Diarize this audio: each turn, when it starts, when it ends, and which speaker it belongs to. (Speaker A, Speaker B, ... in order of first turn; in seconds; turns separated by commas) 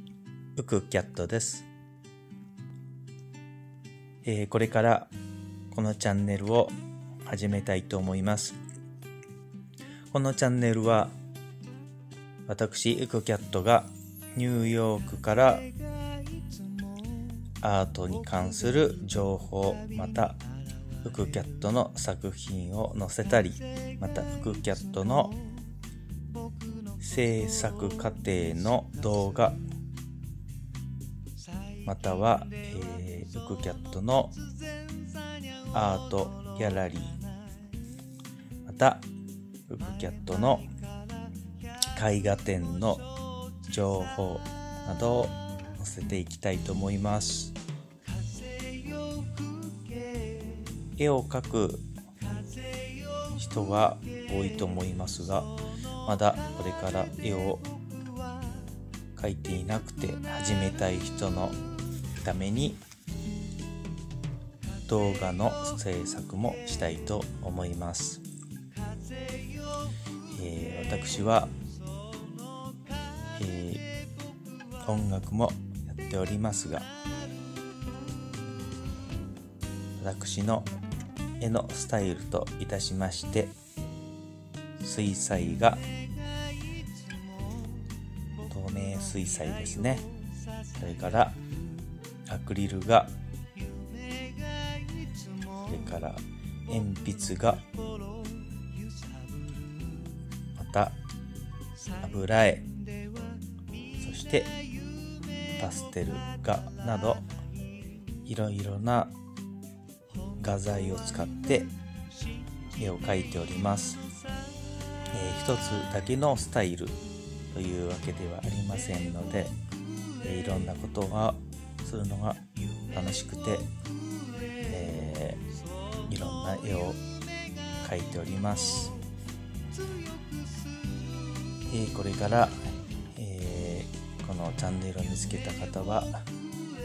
Speaker A: 0.6-1.7, Speaker A: 4.2-5.1, Speaker A: 5.7-8.6, Speaker A: 10.1-11.1, Speaker A: 12.5-15.7, Speaker A: 17.6-20.4, Speaker A: 21.0-25.4, Speaker A: 27.0-29.6, Speaker A: 31.8-34.4, Speaker A: 35.7-37.2, Speaker A: 38.7-39.1, Speaker A: 39.7-40.7, Speaker A: 41.9-43.1, Speaker A: 43.7-47.6, Speaker A: 51.0-51.9, Speaker A: 53.4-55.5, Speaker A: 56.0-57.7, Speaker A: 59.1-61.6, Speaker A: 62.2-62.8, Speaker A: 64.9-68.2, Speaker A: 70.3-71.5, Speaker A: 73.3-73.9, Speaker A: 74.8-76.9, Speaker A: 80.0-80.7, Speaker A: 81.4-83.5, Speaker A: 84.8-85.9, Speaker A: 88.5-90.1, Speaker A: 90.8-91.4, Speaker A: 92.3-93.1, Speaker A: 95.6-97.7, Speaker A: 100.5-101.0, Speaker A: 102.0-102.7, Speaker A: 104.0-104.5, Speaker A: 105.6-107.2, Speaker A: 108.3-109.2, Speaker A: 110.4-111.7, Speaker A: 112.8-114.0, Speaker A: 115.1-117.0, Speaker A: 117.5-119.6, Speaker A: 120.2-123.7, Speaker A: 124.7-125.4, Speaker A: 126.0-127.0, Speaker A: 127.8-129.0, Speaker A: 131.7-136.3